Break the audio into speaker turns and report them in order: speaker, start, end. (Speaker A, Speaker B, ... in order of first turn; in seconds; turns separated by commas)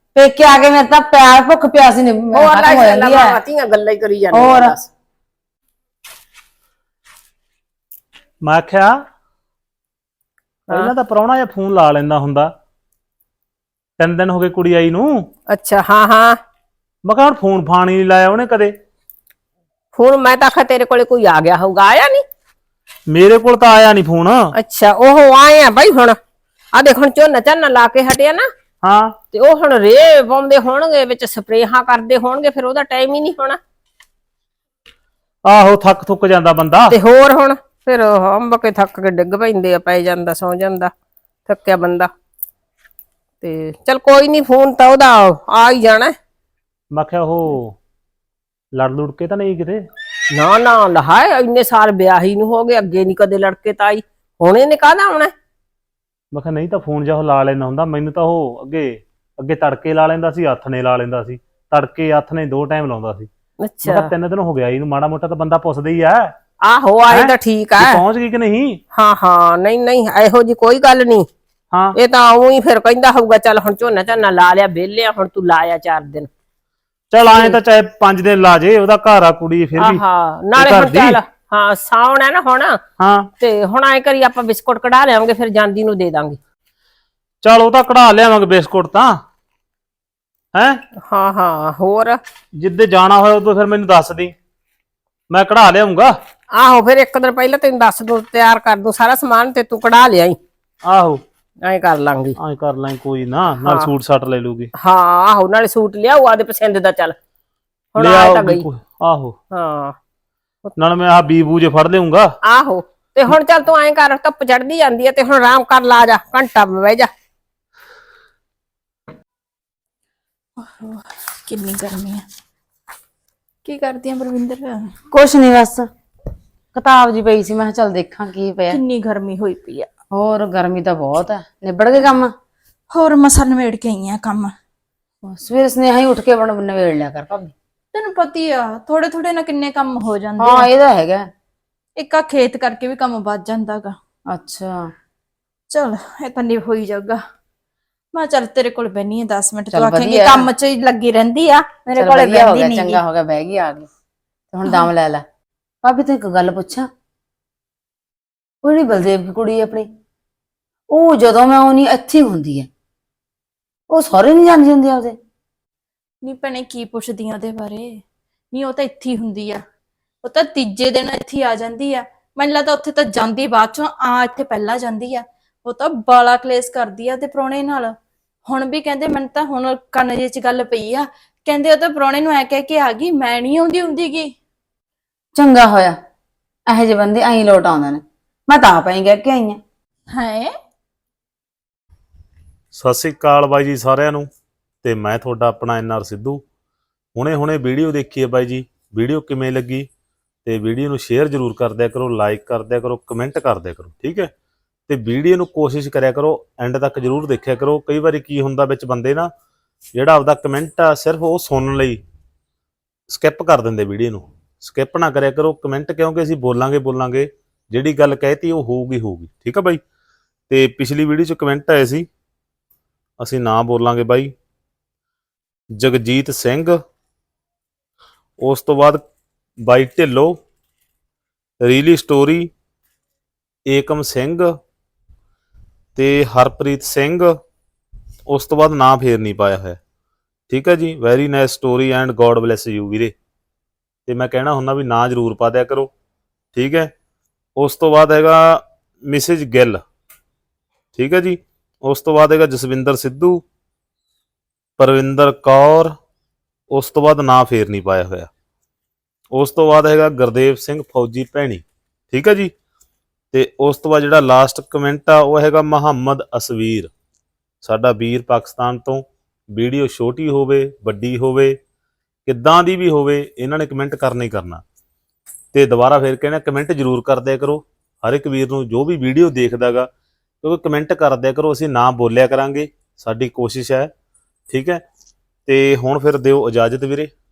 Speaker A: 0.1-3.4, Speaker B: 2.3-4.9, Speaker A: 4.3-4.7, Speaker C: 8.4-8.9, Speaker C: 10.7-12.5, Speaker C: 14.0-15.2, Speaker B: 15.5-16.4, Speaker C: 17.0-18.7, Speaker B: 19.9-22.2, Speaker C: 23.1-24.4, Speaker B: 24.6-26.2, Speaker B: 26.7-28.5, Speaker C: 28.8-29.1, Speaker B: 29.3-33.6, Speaker C: 35.5-37.0, Speaker B: 36.9-40.9, Speaker B: 41.5-42.1, Speaker B: 43.4-46.1, Speaker C: 46.9-47.8, Speaker C: 48.8-49.8, Speaker B: 50.3-55.3, Speaker C: 56.3-63.3, Speaker B: 63.6-64.1, Speaker C: 63.8-66.3, Speaker B: 66.6-68.0, Speaker C: 67.1-68.8, Speaker B: 68.9-71.3, Speaker B: 72.0-76.3, Speaker C: 77.1-80.0, Speaker B: 77.3-77.6, Speaker B: 79.8-82.8, Speaker C: 80.5-81.2, Speaker C: 83.0-83.3, Speaker B: 83.4-86.4, Speaker C: 87.4-89.2, Speaker B: 91.0-92.2, Speaker C: 92.6-94.3, Speaker C: 95.3-96.1, Speaker B: 96.5-100.4, Speaker C: 100.8-101.2, Speaker B: 101.6-102.4, Speaker C: 102.4-104.7, Speaker B: 103.6-103.9, Speaker B: 104.8-107.2, Speaker B: 107.9-108.7, Speaker C: 108.0-109.3, Speaker B: 109.5-110.0, Speaker C: 110.8-112.3, Speaker B: 112.4-117.1, Speaker D: 120.6-122.2, Speaker D: 123.6-124.9, Speaker A: 125.1-125.9, Speaker A: 126.7-128.8, Speaker D: 128.7-129.9, Speaker A: 130.1-132.3, Speaker D: 132.9-134.5, Speaker A: 135.2-137.5, Speaker D: 137.9-140.7, Speaker A: 140.4-141.2, Speaker D: 142.0-143.9, Speaker A: 144.3-144.9, Speaker D: 145.7-147.2, Speaker D: 148.1-153.0, Speaker A: 149.7-150.5, Speaker A: 151.9-153.9, Speaker A: 154.5-155.2, Speaker A: 155.8-156.9, Speaker A: 158.6-159.9, Speaker A: 160.9-162.7, Speaker A: 163.9-165.1, Speaker D: 166.2-168.0, Speaker D: 168.5-169.6, Speaker D: 170.2-177.9, Speaker D: 178.5-184.3, Speaker A: 185.3-186.0, Speaker A: 186.7-189.6, Speaker D: 190.1-190.5, Speaker C: 192.7-194.3, Speaker C: 194.8-196.4, Speaker C: 197.1-199.9, Speaker C: 200.4-204.3, Speaker C: 204.9-209.3, Speaker C: 209.9-212.0, Speaker C: 213.1-219.8, Speaker C: 220.5-222.1, Speaker C: 223.2-224.3, Speaker C: 225.8-226.8, Speaker C: 228.4-229.0, Speaker C: 229.7-230.4, Speaker C: 231.6-232.5, Speaker C: 233.7-234.5, Speaker C: 235.9-237.3, Speaker C: 238.3-239.8, Speaker C: 240.5-243.1, Speaker C: 244.1-245.9, Speaker C: 246.5-246.9, Speaker C: 247.6-249.8, Speaker C: 250.9-253.4, Speaker C: 254.8-255.9, Speaker C: 256.7-258.3, Speaker C: 259.3-262.5, Speaker C: 263.3-266.9, Speaker C: 267.6-271.6, Speaker C: 272.2-274.6, Speaker C: 275.5-279.9, Speaker C: 280.4-283.9, Speaker C: 284.5-284.8, Speaker C: 285.4-287.1